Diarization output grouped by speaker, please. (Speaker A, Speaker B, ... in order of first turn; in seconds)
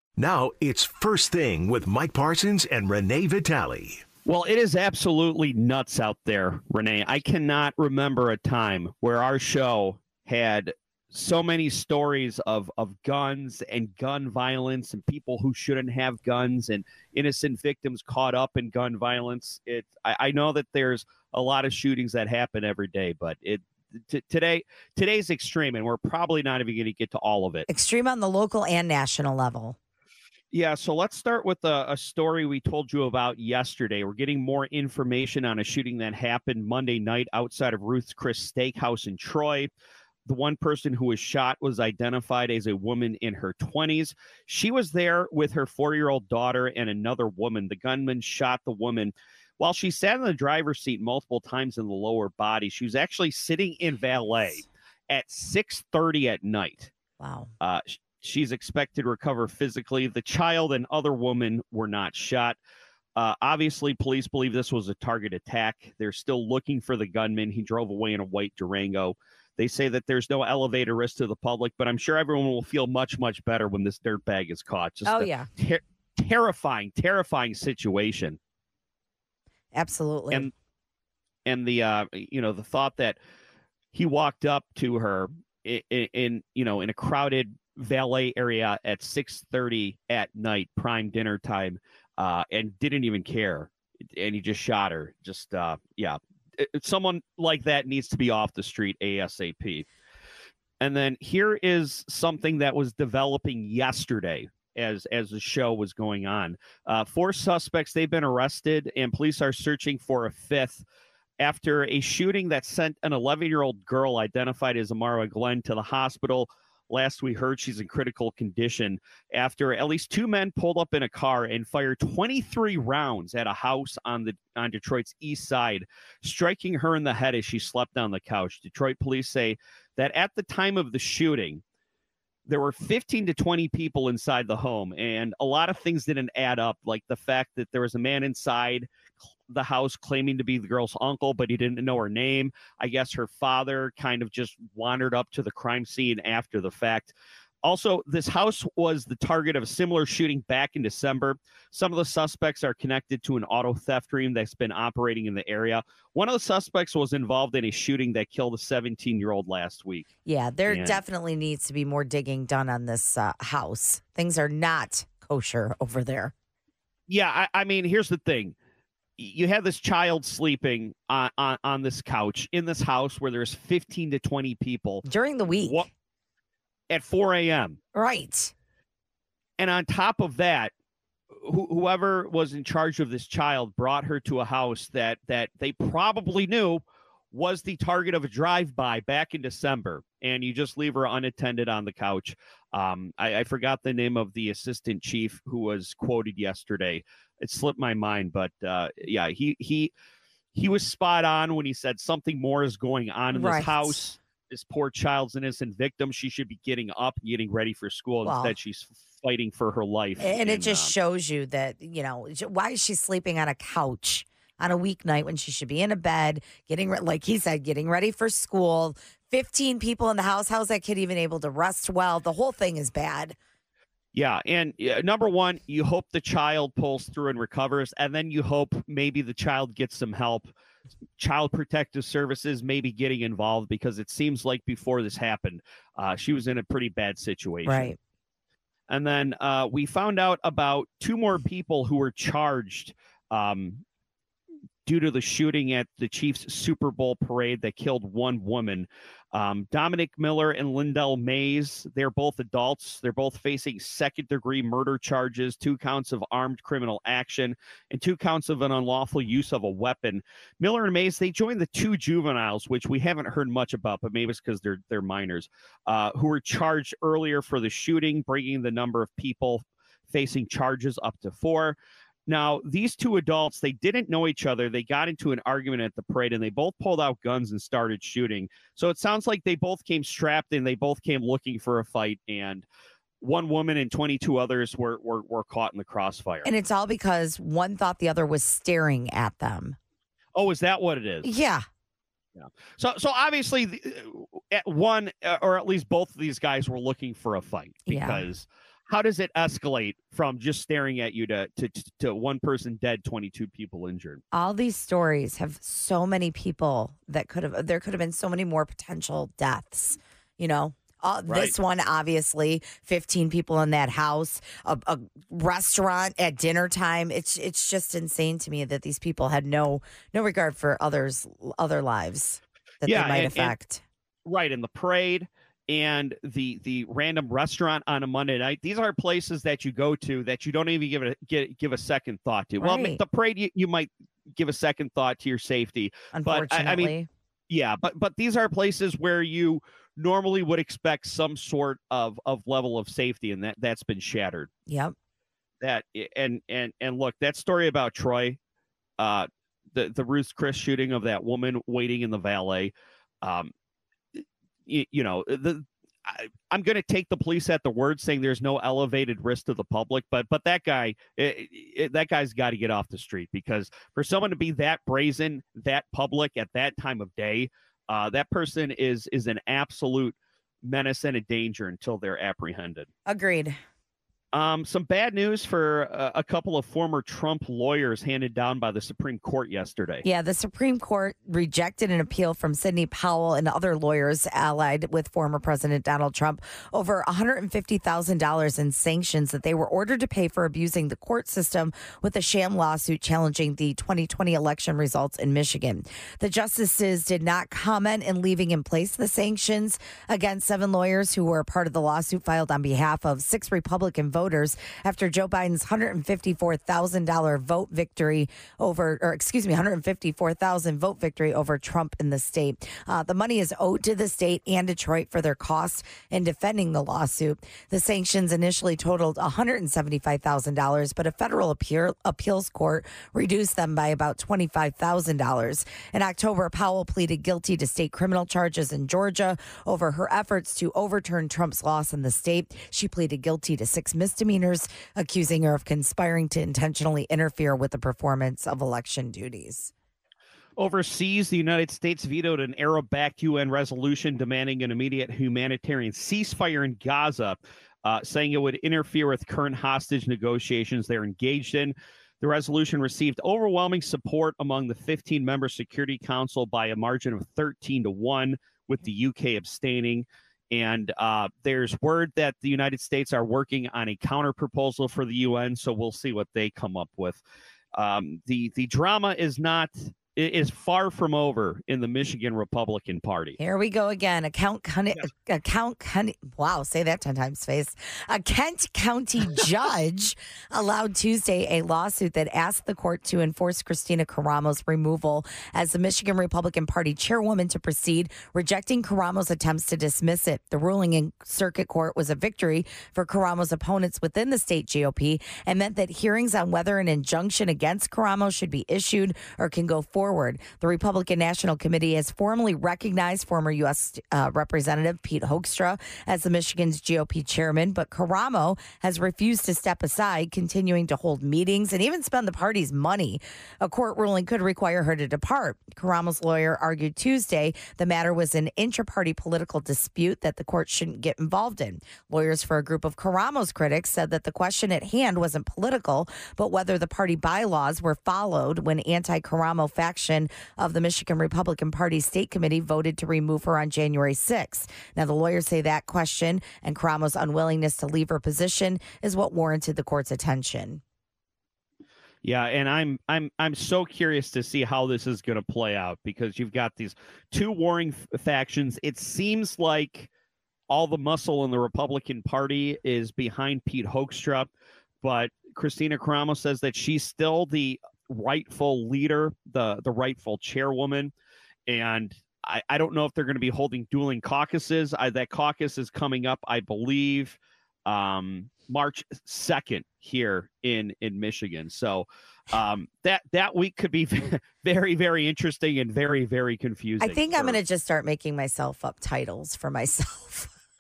Speaker A: 0.2-4.0
Speaker B: 4.2-27.7, 30.5-39.7, 40.3-56.9, 57.6-62.6, 63.2-78.4, 81.5-83.2, 83.9-99.9, 100.8-110.8, 111.4-131.6, 132.5-138.9, 139.5-147.1, 147.6-160.1, 160.7-161.0, 167.1-168.5, 169.2-175.1, 175.6-175.9, 176.9-177.8, 179.6-180.7, 181.3-199.9, 200.5-210.9, 224.1-230.5, 231.2-237.9, 238.9-243.8, 244.8-282.6, 283.2-286.5, 290.4-291.3, 292.4-304.2, 311.2-311.5, 322.8-323.5, 324.2-336.9, 337.5-344.5, 345.6-348.4, 349.0-352.7, 353.2-353.5, 354.2-372.9, 374.3-380.0, 440.6-467.2, 467.7-473.4, 542.2-550.1, 550.7-554.5, 555.0-561.1, 561.7-577.6
Speaker C: 27.7-29.8, 57.2-57.5, 75.0-75.5, 79.7-80.5, 160.2-166.3, 175.1-175.8, 177.9-178.5, 203.3-204.0, 208.2-208.5, 210.2-223.3, 237.6-238.0, 286.4-289.8, 291.2-291.6, 297.9-298.2, 304.3-323.8, 332.6-333.0, 336.1-337.1, 344.7-344.9, 373.1-373.6, 380.0-439.7, 473.4-540.8, 577.0-580.5